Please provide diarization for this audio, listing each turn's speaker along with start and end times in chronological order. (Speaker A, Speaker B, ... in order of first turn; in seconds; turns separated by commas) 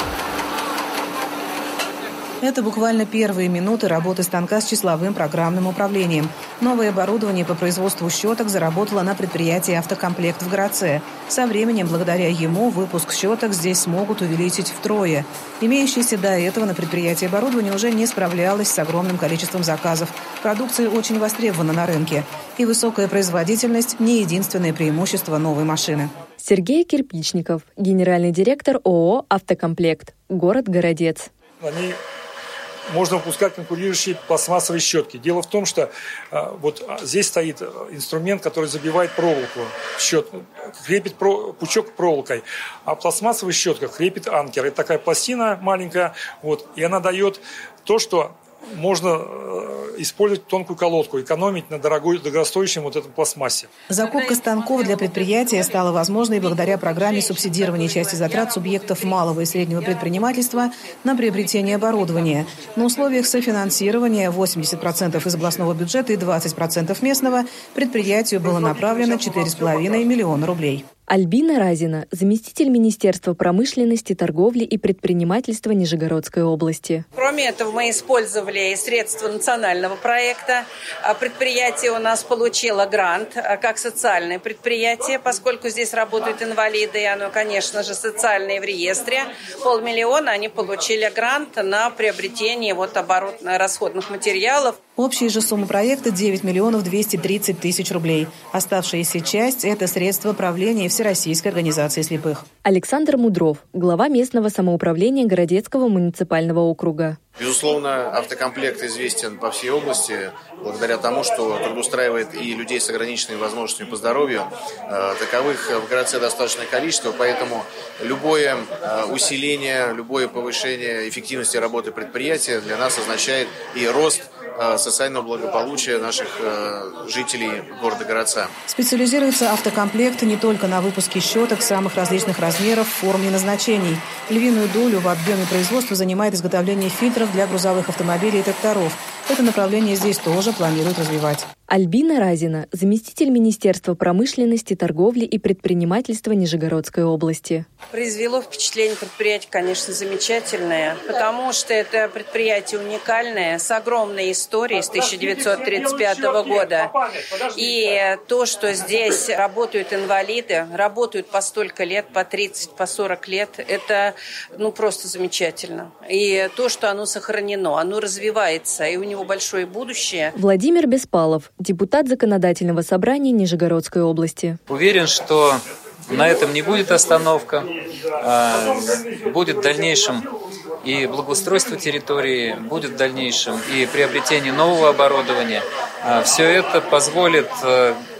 Speaker A: 2.4-26.1, Speaker B: 26.4-31.3, Speaker C: 31.6-32.0, Speaker C: 32.9-53.7, Speaker A: 53.9-70.8, Speaker D: 57.5-58.2, Speaker B: 71.1-77.0, Speaker D: 77.1-94.8, Speaker A: 95.0-102.4, Speaker B: 102.6-107.2, Speaker E: 107.4-128.5, Speaker A: 128.7-141.5, Speaker B: 141.7-147.7, Speaker D: 147.9-157.0, Speaker C: 155.1-157.3, Speaker D: 157.5-170.3, Speaker B: 170.3-174.6, Speaker F: 174.7-180.3, Speaker F: 180.8-188.0